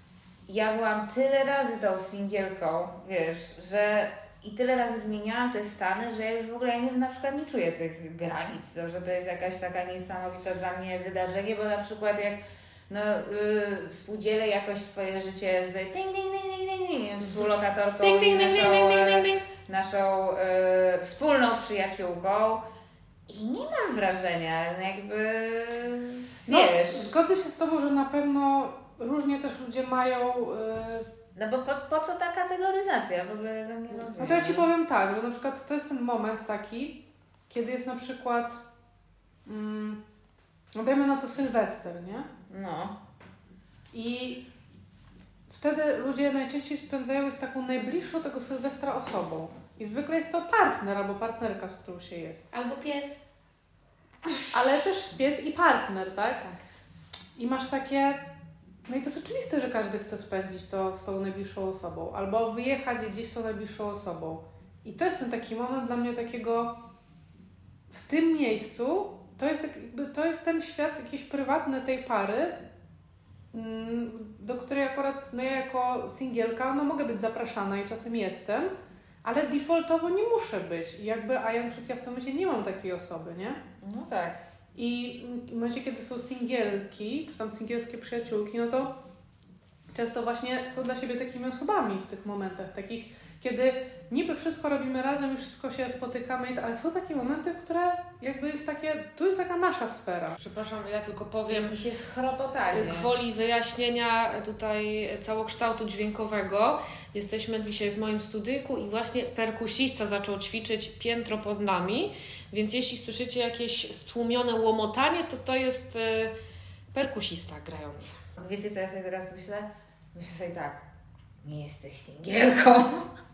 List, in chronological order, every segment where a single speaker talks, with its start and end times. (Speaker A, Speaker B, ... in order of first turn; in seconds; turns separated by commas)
Speaker A: 0.5-22.6, Speaker B: 18.0-19.4, Speaker A: 23.3-27.1, Speaker C: 26.5-31.1, Speaker A: 31.4-34.7, Speaker B: 34.1-34.6, Speaker C: 34.2-38.6, Speaker C: 39.5-40.0, Speaker C: 40.8-42.3, Speaker A: 42.5-43.0, Speaker C: 43.9-44.4, Speaker C: 45.5-52.5, Speaker B: 52.5-53.2, Speaker C: 54.5-56.5, Speaker C: 57.4-58.2, Speaker C: 58.9-66.7, Speaker C: 67.9-72.6, Speaker C: 73.5-78.7, Speaker C: 79.2-83.6, Speaker A: 83.8-84.4, Speaker C: 84.8-88.9, Speaker C: 89.9-100.4, Speaker B: 100.4-101.8, Speaker A: 101.5-103.1, Speaker B: 102.7-116.3, Speaker B: 116.9-118.2, Speaker A: 118.4-120.8, Speaker A: 121.4-123.1